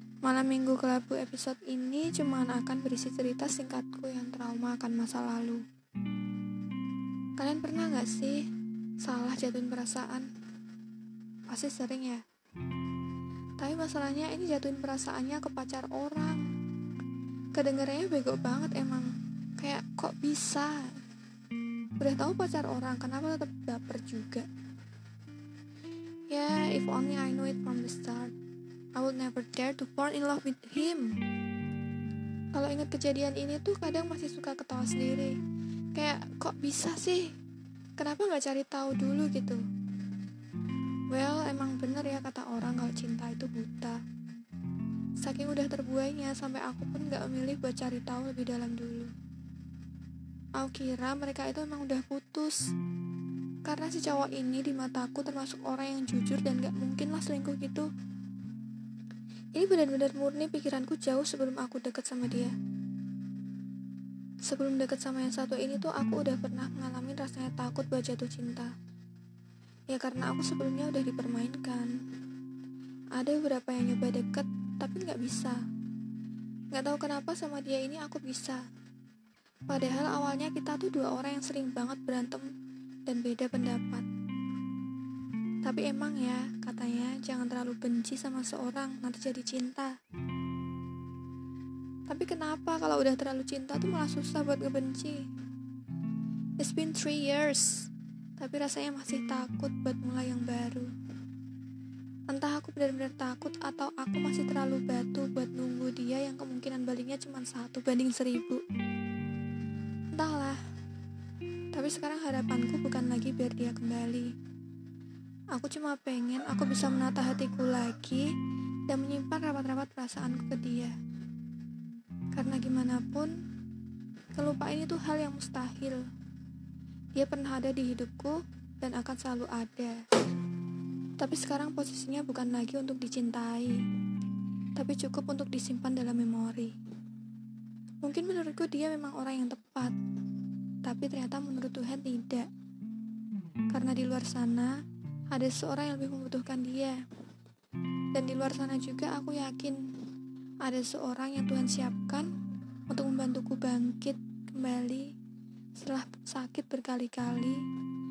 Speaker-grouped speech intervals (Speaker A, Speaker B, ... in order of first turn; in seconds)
Speaker A: 0.2-5.6, 7.4-8.5, 9.0-10.3, 11.5-12.2, 13.6-16.4, 17.5-21.0, 22.0-24.5, 26.3-28.3, 28.9-31.1, 32.5-35.3, 36.0-37.3, 38.0-39.6, 41.1-44.0, 45.2-49.1, 50.6-52.6, 53.6-57.9, 59.5-62.5, 64.5-68.7, 69.9-72.0, 73.1-75.6, 76.7-78.6, 79.7-82.5, 83.1-84.1, 85.6-90.0, 92.1-95.2, 96.6-100.9, 102.3-108.6, 110.1-110.6, 111.7-114.3, 115.5-118.3, 118.9-121.0, 122.3-123.3, 124.3-126.0, 127.1-130.0, 131.2-133.8, 134.8-136.8, 138.0-139.9, 140.8-142.5, 143.7-144.8, 145.3-147.0, 148.1-149.8, 150.6-152.3, 152.9-155.1, 155.8-157.6